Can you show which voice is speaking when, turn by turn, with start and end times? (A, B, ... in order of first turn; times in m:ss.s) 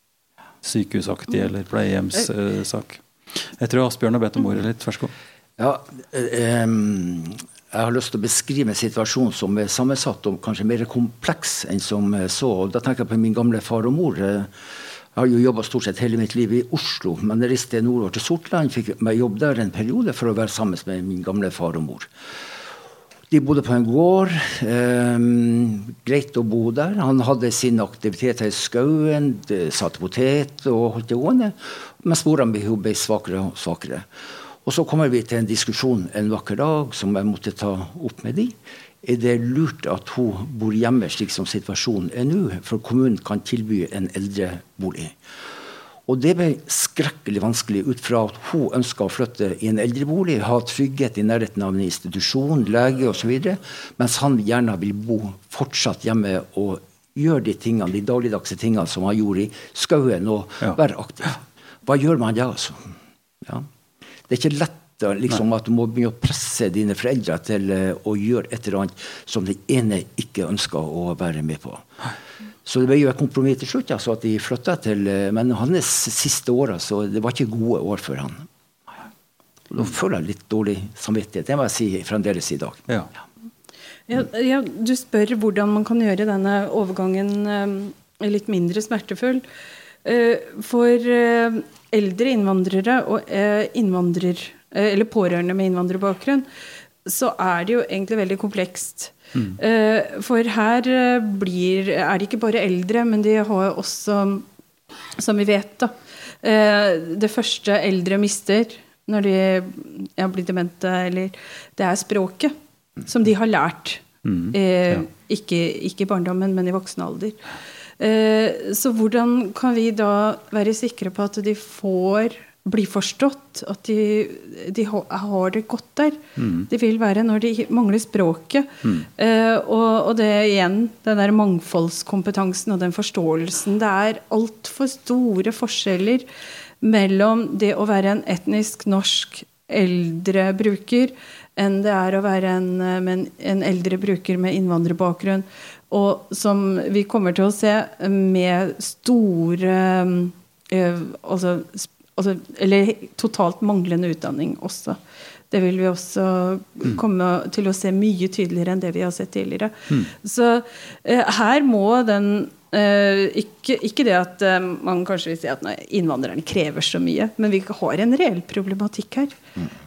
0:00.6-0:05.1 A
0:05.6-0:14.5 B
0:15.2-0:22.1 B
0:23.3-0:34.1 B
0:34.6-0:45.2 B
0:46.1-1:02.9 B
1:04.3-1:11.9 B
1:12.6-1:18.4 B
1:19.7-1:22.8 B
1:24.1-1:29.5 C
1:30.0-1:36.5 C
1:37.0-1:44.5 C
1:45.2-1:52.5 C
1:53.0-1:57.4 C
1:54.2-1:55.0 A
1:58.0-2:16.3 C
2:06.4-2:06.7 A
2:08.8-2:09.1 A
2:16.8-2:35.0 C
2:35.5-2:49.4 C